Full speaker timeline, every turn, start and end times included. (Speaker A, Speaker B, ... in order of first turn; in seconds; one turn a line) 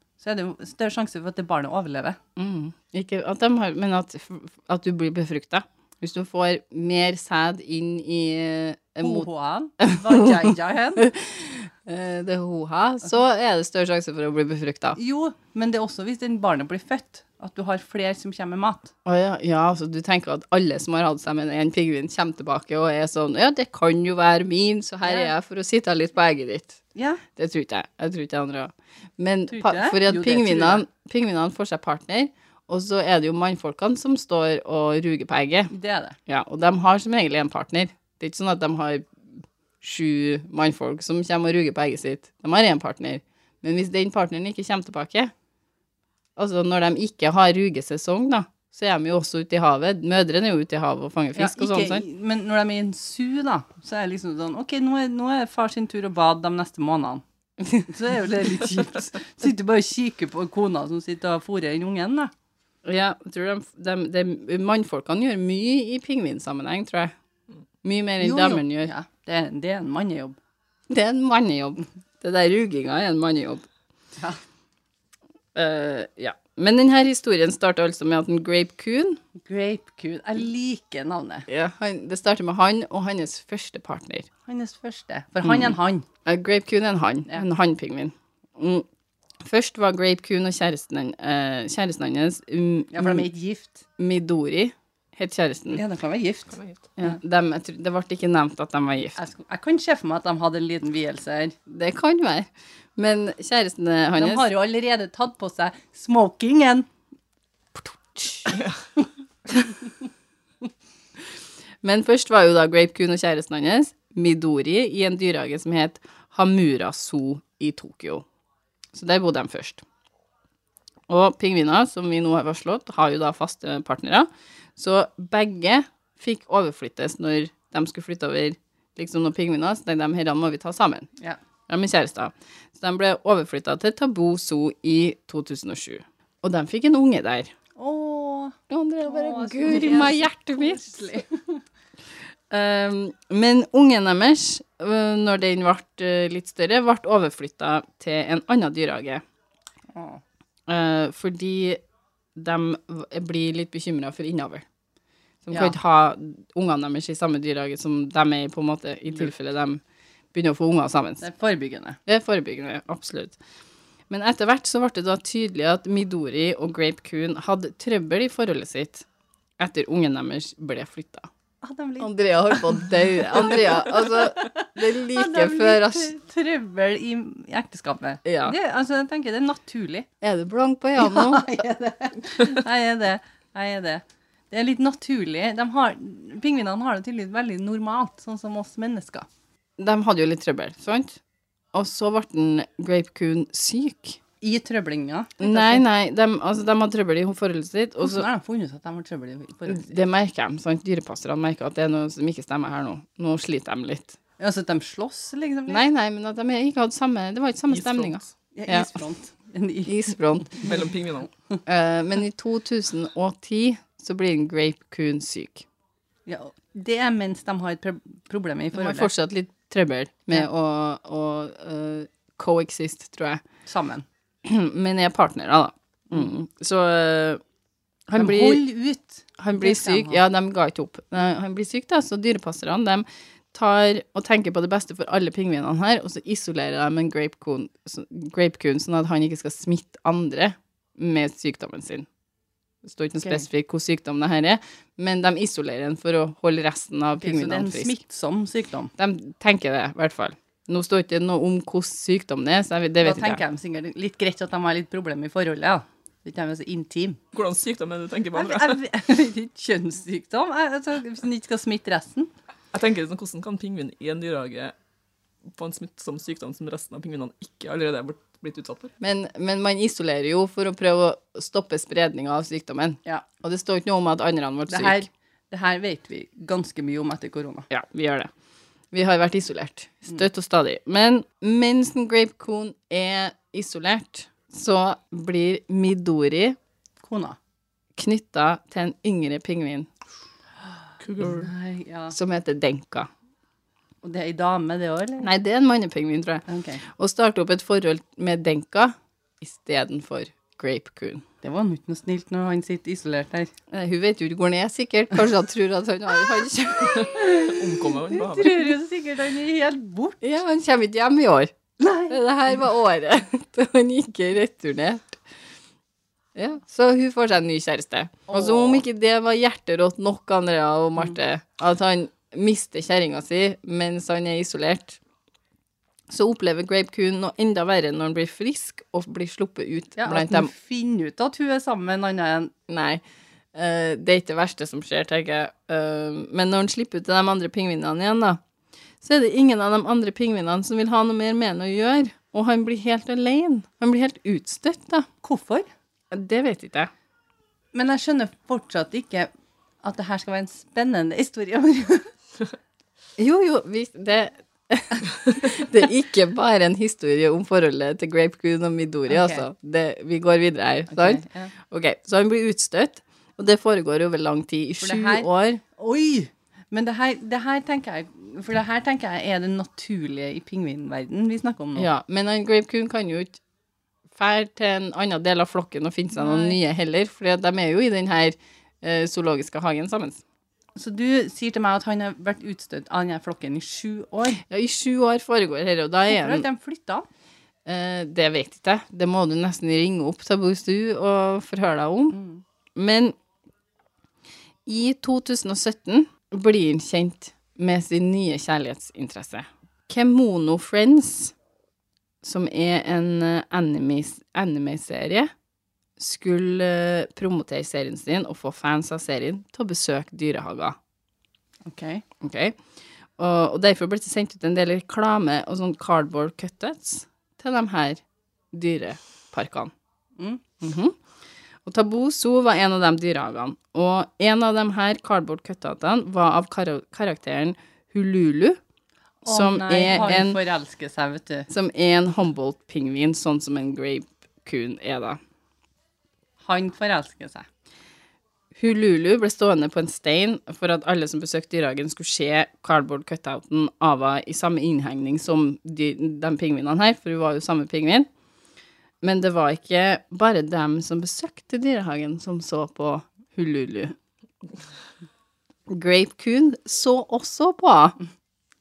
Speaker A: 0.2-2.2
Speaker B: 2.4-9.3
Speaker A: 9.0-11.0
Speaker B: 9.8-10.3
Speaker B: 11.0-15.0
Speaker A: 14.9-18.9
Speaker B: 19.0-26.8
Speaker A: 25.0-25.3
Speaker A: 26.9-27.2
Speaker B: 27.3-35.7
Speaker A: 29.5-30.8
Speaker A: 35.7-36.2
Speaker B: 36.3-39.0
Speaker B: 39.8-45.3
Speaker B: 46.4-52.0
Speaker A: 51.4-62.3
Speaker B: 62.8-67.1
Speaker B: 67.8-68.9
Speaker A: 68.2-70.4
Speaker B: 70.9-73.7
Speaker B: 75.5-79.2
Speaker A: 79.5-81.5
Speaker B: 81.5-84.3
Speaker A: 84.5-86.0
Speaker B: 85.4-85.7
Speaker B: 86.2-88.8
Speaker B: 89.4-93.2
Speaker A: 92.9-93.8
Speaker B: 94.0-95.8
Speaker A: 95.7-97.2
Speaker C: 96.5-96.8
Speaker B: 97.0-99.2
Speaker A: 99.1-101.5
Speaker B: 101.7-104.5
Speaker A: 104.2-106.9
Speaker B: 108.1-108.6
Speaker B: 111.8-118.2
Speaker B: 118.9-119.8
Speaker B: 121.1-131.1
Speaker B: 131.7-137.5
Speaker A: 137.8-141.6
Speaker B: 138.7-140.8
Speaker B: 142.5-149.2
Speaker A: 149.9-150.2
Speaker B: 150.7-151.8
Speaker B: 152.3-154.6
Speaker B: 155.5-159.8
Speaker B: 160.3-161.2
Speaker A: 161.2-162.0
Speaker B: 162.1-163.4
Speaker B: 164.1-169.1
Speaker B: 169.6-171.3
Speaker A: 171.6-180.1
Speaker B: 172.0-176.1
Speaker B: 178.2-178.6
Speaker B: 180.2-181.6
Speaker A: 181.0-189.2
Speaker B: 189.8-191.2
Speaker B: 191.7-194.2
Speaker A: 194.4-195.8
Speaker B: 195.4-198.2
Speaker A: 198.0-200.0
Speaker B: 199.7-204.2
Speaker A: 204.4-205.9
Speaker B: 205.7-209.0
Speaker C: 207.7-208.3
Speaker A: 208.5-210.7
Speaker B: 209.8-210.7
Speaker C: 210.6-211.3
Speaker B: 211.7-215.7
Speaker A: 216.3-219.1
Speaker B: 218.7-223.4
Speaker A: 223.7-224.1
Speaker B: 224.4-227.4
Speaker B: 228.1-228.6
Speaker A: 228.2-230.2
Speaker B: 229.4-242.1
Speaker B: 242.8-247.9
Speaker A: 247.2-248.9
Speaker B: 249.0-253.4
Speaker A: 253.0-257.2
Speaker C: 257.3-258.8
Speaker A: 258.3-262.3
Speaker C: 262.7-264.7
Speaker C: 265.5-268.9
Speaker B: 269.0-275.1
Speaker A: 274.7-277.7
Speaker B: 277.7-278.3
Speaker B: 278.9-286.6
Speaker A: 287.0-287.4
Speaker B: 287.9-289.9
Speaker C: 291.0-291.5
Speaker A: 291.2-292.1
Speaker B: 292.1-293.1
Speaker A: 294.0-295.3
Speaker B: 295.2-301.2
Speaker A: 296.5-296.8
Speaker A: 301.4-303.5
Speaker B: 303.7-307.1
Speaker C: 306.9-308.7
Speaker A: 307.1-310.2
Speaker B: 310.2-311.5
Speaker A: 311.8-312.2
Speaker B: 312.1-315.2
Speaker B: 316.4-325.0
Speaker A: 318.3-318.8
Speaker B: 326.1-330.5
Speaker A: 330.0-332.5
Speaker B: 332.7-333.0
Speaker B: 333.5-338.4
Speaker B: 339.0-345.1
Speaker A: 345.2-345.7
Speaker B: 346.1-346.9
Speaker A: 347.7-349.3
Speaker A: 349.8-352.1
Speaker B: 353.2-365.6
Speaker A: 359.1-359.4
Speaker A: 360.9-361.5
Speaker A: 364.8-371.9
Speaker B: 371.8-373.4
Speaker B: 374.1-380.2
Speaker A: 376.1-376.6
Speaker A: 380.8-384.4
Speaker B: 384.5-386.4
Speaker A: 386.1-387.1
Speaker B: 387.6-392.2
Speaker A: 392.1-392.4
Speaker B: 392.8-393.1
Speaker B: 394.6-401.3
Speaker B: 402.2-405.3
Speaker B: 406.0-410.8
Speaker A: 411.6-412.0
Speaker B: 412.2-412.6
Speaker B: 413.2-419.7
Speaker A: 420.2-420.4
Speaker B: 420.6-420.9
Speaker B: 421.6-428.6
Speaker B: 429.2-430.4
Speaker A: 429.2-431.5
Speaker B: 431.5-435.2
Speaker A: 436.4-437.4
Speaker B: 438.5-448.1
Speaker B: 449.0-453.9
Speaker B: 455.7-458.0